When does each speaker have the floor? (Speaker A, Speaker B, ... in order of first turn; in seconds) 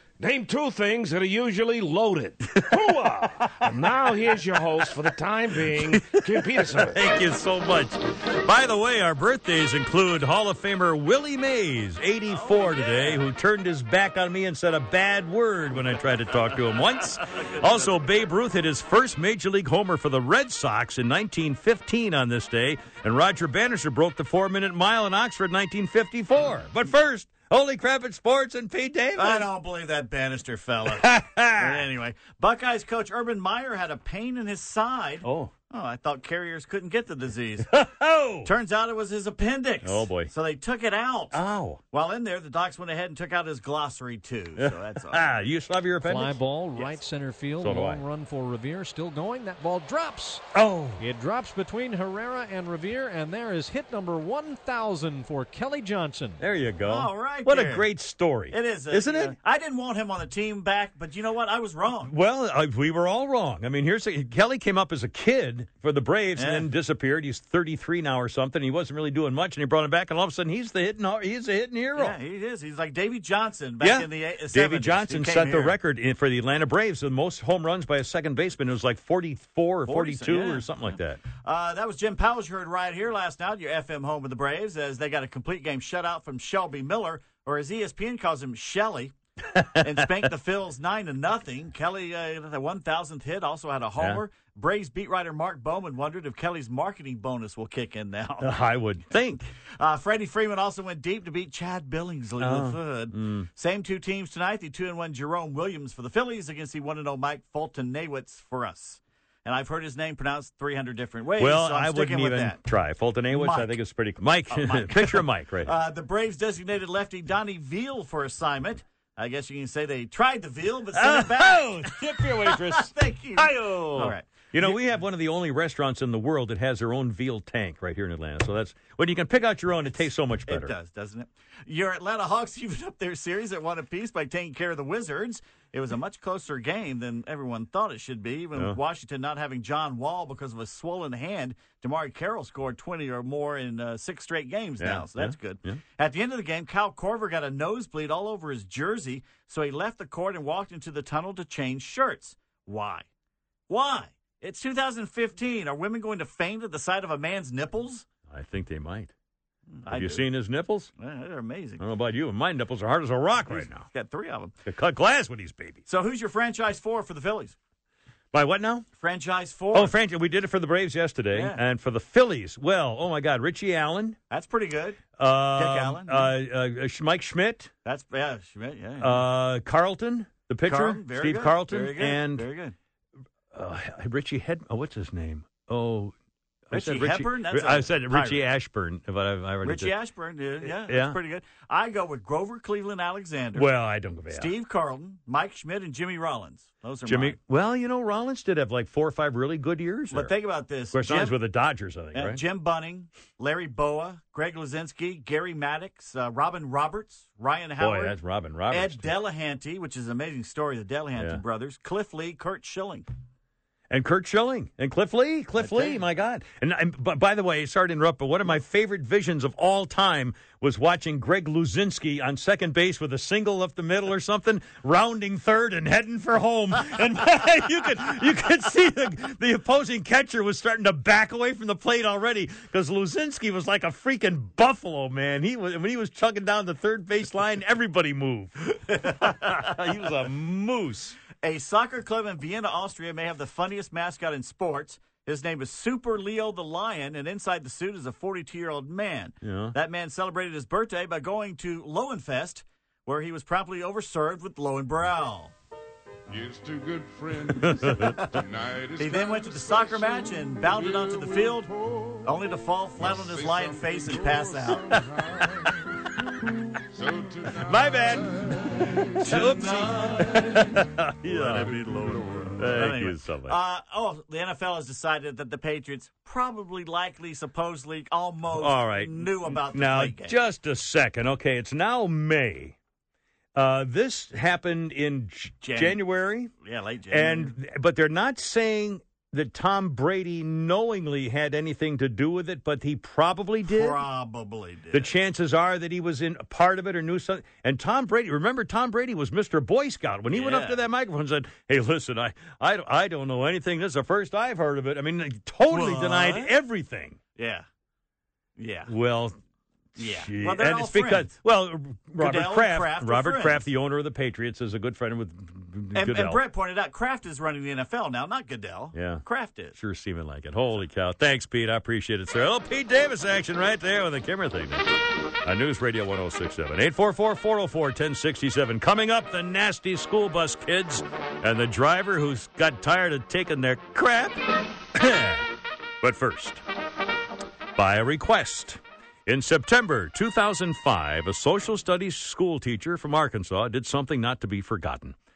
Speaker A: 0.2-7.0
Speaker B: 2.5-4.3, 5.7-29.5, 31.0-31.8, 35.2-35.5, 37.7-38.5, 39.8-40.3, 41.3-41.8, 44.6-47.0, 47.6-48.0, 50.5-51.0, 56.4-59.4, 62.0-72.2, 73.8-81.2, 89.5-90.2, 98.4-99.5, 102.4-103.5, 111.4-115.7, 121.0-130.7, 144.8-145.8, 158.3-159.1, 159.9-160.9, 161.8-163.9, 164.7-165.8, 168.3-168.9, 169.7-174.2, 175.2-177.7, 179.0-182.5, 183.5-186.1, 186.7-189.9, 190.6-191.2, 193.5-194.5, 197.1-200.3, 200.9-202.4, 207.8-209.1, 211.2-211.4, 213.9-241.2, 249.4-249.8, 257.6-258.1, 264.9-265.7, 267.6-273.6, 278.5-282.8, 283.6-286.5, 287.1-294.0, 294.9-307.2, 308.9-309.4, 310.0-316.4, 318.9-319.2, 319.8-334.4, 334.9-335.5, 336.0-336.6, 337.8-345.1
Speaker C: 12.3-13.2, 17.4-18.1, 29.2-31.0, 31.6-37.7, 38.5-41.4, 41.9-45.4, 56.9-57.9, 58.5-62.1, 66.4-66.7, 72.0-75.7, 79.9-80.6, 81.4-89.2, 89.8-98.6, 99.8-112.6, 113.3-113.7, 114.5-121.8, 122.5-124.8, 130.5-153.1, 153.7-158.1, 159.8-160.2, 161.0-161.8, 163.5-164.6, 165.9-167.6, 169.0-169.9, 171.3-171.6, 174.3-175.0, 175.6-176.3, 177.8-179.2, 180.6-182.8, 186.7-188.4, 189.6-193.7, 194.3-197.4, 200.1-201.3, 202.2-208.1, 208.7-213.1, 215.6-216.0, 241.4-255.5, 257.5-258.4, 258.9-261.7, 262.2-264.9, 269.2-270.6, 271.3-280.3, 285.6-286.0, 286.6-287.5, 293.7-295.1, 300.3-300.8, 305.7-306.5, 307.4-307.7, 308.6-308.9, 310.0-311.3, 312.2-313.6, 315.9-319.8
Speaker D: 46.0-50.4, 51.0-56.4